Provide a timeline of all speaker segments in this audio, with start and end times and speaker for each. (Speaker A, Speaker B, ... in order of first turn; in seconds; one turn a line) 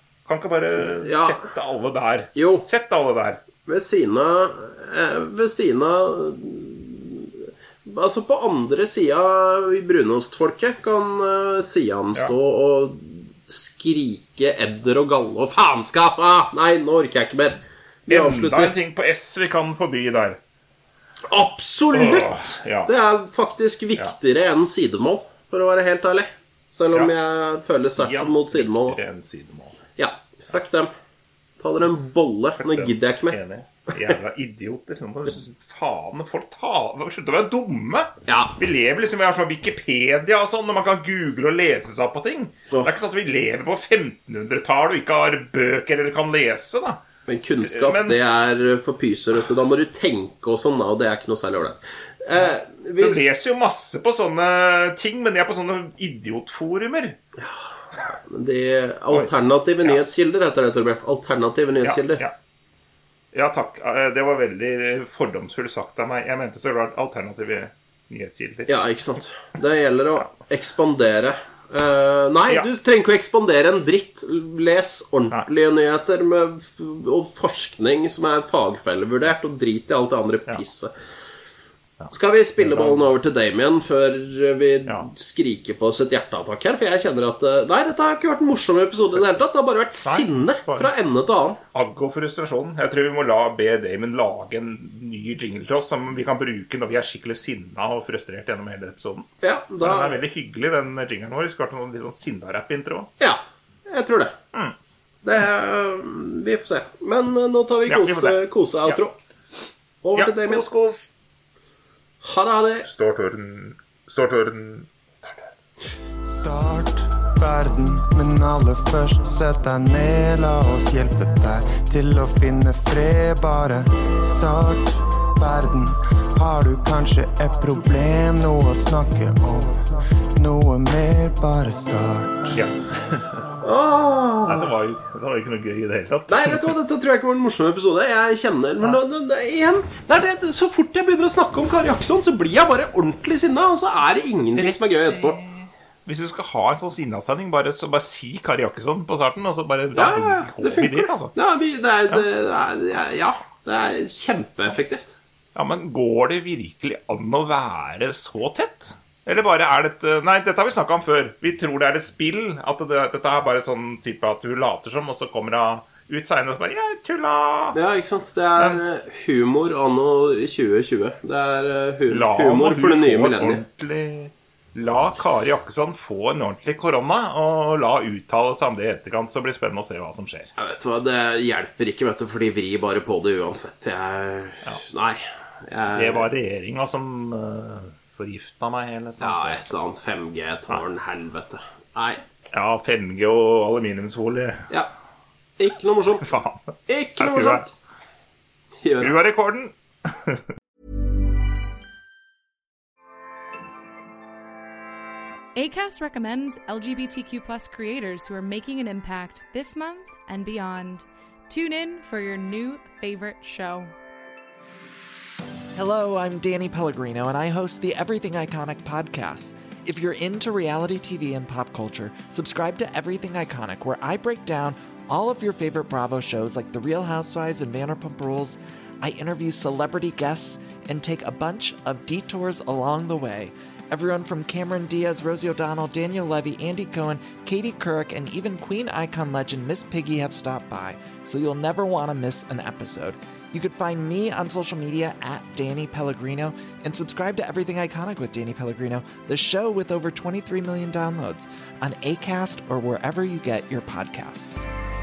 Speaker A: 0.3-3.4
Speaker B: 0.8-1.4
Speaker B: 2.4-2.6
Speaker B: 3.7-18.8
Speaker A: 18.1-20.4
Speaker B: 21.3-29.0
Speaker A: 21.9-22.9
Speaker A: 27.8-29.8
Speaker B: 30.0-30.9
Speaker B: 31.6-33.4
Speaker A: 32.6-47.0
Speaker B: 38.3-38.5
Speaker B: 47.3-53.3
Speaker A: 47.6-48.2
Speaker A: 52.4-57.2
Speaker B: 57.4-62.2
Speaker A: 61.8-62.3
Speaker A: 63.3-68.7
Speaker B: 68.7-80.9
Speaker A: 82.0-83.1
Speaker B: 82.1-91.6
Speaker A: 90.0-90.9
Speaker A: 91.7-99.3
Speaker B: 99.4-100.2
Speaker A: 99.8-103.1
Speaker B: 103.2-104.4
Speaker B: 105.2-109.1
Speaker A: 107.9-109.0
Speaker B: 110.0-110.7
Speaker A: 110.2-111.1
Speaker B: 112.2-112.9
Speaker A: 112.9-115.4
Speaker C: 116.2-132.6
Speaker A: 132.5-133.4
Speaker B: 133.6-134.7
Speaker A: 134.5-136.7
Speaker B: 136.3-145.4
Speaker A: 144.6-151.3
Speaker B: 149.9-155.2
Speaker A: 155.6-167.8
Speaker B: 167.7-173.6
Speaker A: 172.1-180.5
Speaker B: 180.6-186.3
Speaker A: 185.9-189.6
Speaker B: 189.2-192.2
Speaker A: 192.5-194.7
Speaker B: 195.6-196.3
Speaker A: 196.2-197.7
Speaker B: 196.9-197.7
Speaker B: 198.8-199.2
Speaker A: 199.0-200.4
Speaker D: 205.6-213.9
Speaker E: 215.8-254.7